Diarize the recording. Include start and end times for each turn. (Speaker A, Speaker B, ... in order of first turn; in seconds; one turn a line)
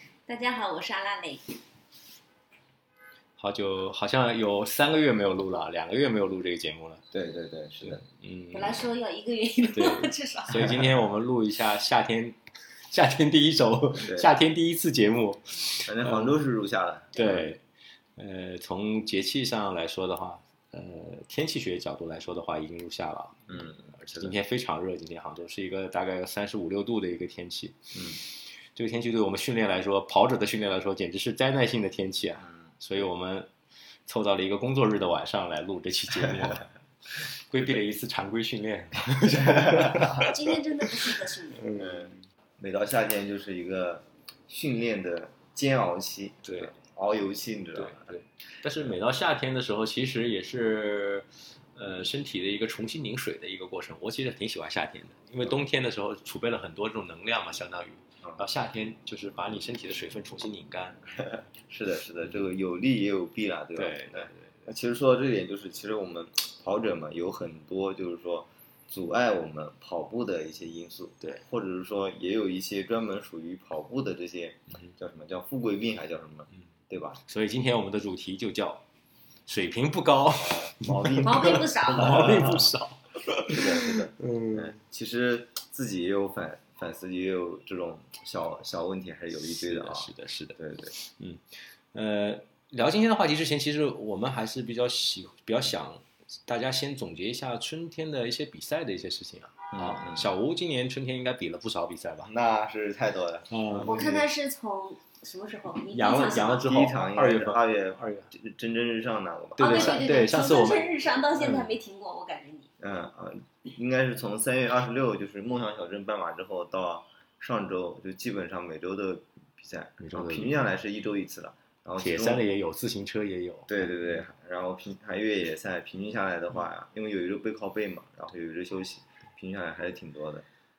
Speaker A: 0.3-1.6
Speaker B: 3.4-7.0
Speaker C: 7.1-8.0
Speaker B: 7.8-8.9
Speaker A: 8.5-10.8
Speaker B: 9.7-12.4
Speaker B: 12.9-16.4
Speaker C: 14.0-14.3
Speaker C: 15.8-17.5
Speaker A: 17.1-17.4
Speaker B: 17.1-17.6
Speaker B: 18.2-23.5
Speaker C: 23.5-24.4
Speaker B: 24.1-33.5
Speaker C: 27.9-28.2
Speaker C: 32.4-32.7
Speaker B: 34.0-40.4
Speaker C: 39.3-40.3
Speaker A: 40.2-41.7
Speaker B: 41.1-42.1
Speaker C: 41.7-48.1
Speaker B: 46.4-46.7
Speaker B: 47.7-61.0
Speaker C: 61.2-77.2
Speaker B: 63.7-64.5
Speaker B: 77.2-78.8
Speaker B: 79.5-84.7
Speaker C: 80.3-82.7
Speaker A: 81.2-82.5
Speaker C: 83.4-91.0
Speaker B: 89.4-102.3
Speaker C: 99.7-100.3
Speaker C: 102.2-104.3
Speaker B: 103.5-104.0
Speaker A: 103.8-106.7
Speaker B: 105.9-108.3
Speaker C: 106.4-110.5
Speaker B: 109.6-111.7
Speaker A: 109.6-112.7
Speaker C: 112.8-122.5
Speaker B: 120.0-120.6
Speaker B: 122.0-123.9
Speaker C: 123.7-130.4